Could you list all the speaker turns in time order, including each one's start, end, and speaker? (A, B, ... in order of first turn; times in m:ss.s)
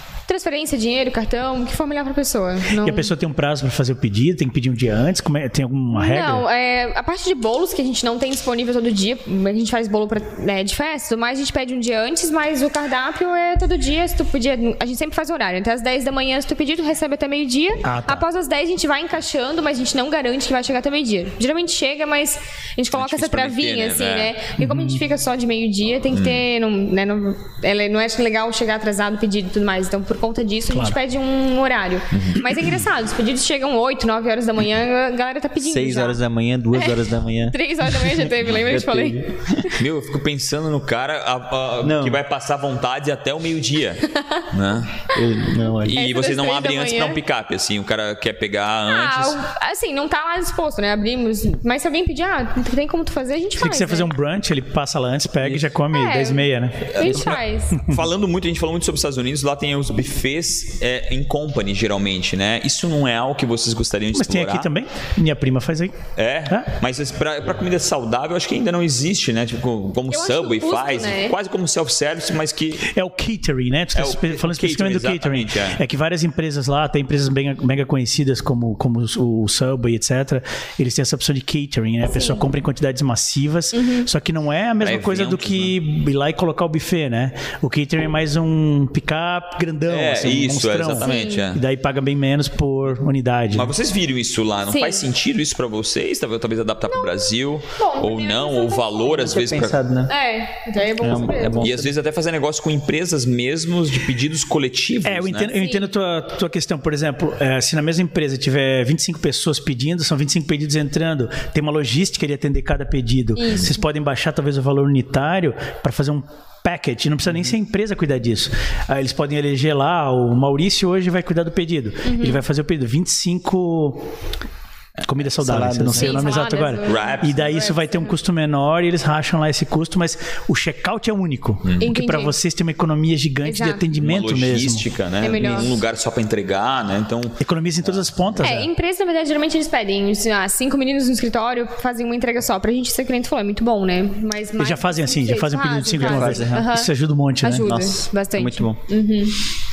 0:00.3-0:03.1 A
0:02.8-0:06.5 B
0:05.9-0:36.2 A
0:17.8-0:18.2 B
0:22.9-0:24.4 C
0:24.6-0:25.0 B
0:26.1-0:26.4 C
0:30.7-0:31.0 B
0:32.1-0:32.6 C
0:35.6-0:39.7 D
0:37.5-0:39.8 A
0:39.8-0:45.0 C
0:41.8-0:42.2 D
0:44.1-0:44.5 A
0:45.1-0:46.0 D
0:45.8-0:47.2 A
0:45.9-0:49.4 C
0:48.9-0:54.1 A
0:53.6-0:58.0 B
0:55.9-0:57.8 A
0:56.9-1:04.7 C
1:04.2-1:06.7 B
1:06.2-1:12.9 C
1:10.1-1:11.4 A
1:12.9-1:33.7 B
1:14.0-1:15.8 C
1:22.1-1:22.5 A
1:23.7-1:24.1 A
1:24.8-1:25.8 C
1:29.9-1:31.6 C
1:31.0-1:31.5 A
1:33.5-1:39.8 C
1:34.7-1:35.1 A
1:36.9-1:37.2 A
1:37.8-1:39.4 A
1:39.2-1:40.1 D
1:40.1-1:41.7 A
1:41.0-1:41.9 D
1:41.6-1:45.5 C
1:45.0-2:04.1 B
1:45.6-1:45.9 A
1:53.4-1:53.8 A
1:57.3-1:57.5 D
2:02.0-2:02.4 A
2:05.0-2:14.8 B
2:05.2-2:06.2 D
2:05.9-2:08.2 A
2:06.8-2:07.6 C
2:11.8-2:12.4 A
2:13.4-2:13.8 A
2:14.0-2:18.6 C
2:15.2-2:15.8 A
2:17.4-2:18.7 B
2:18.4-2:26.9 A
2:24.6-2:27.7 B
2:26.0-2:26.8 D
2:27.4-2:29.4 A
2:27.6-2:28.8 D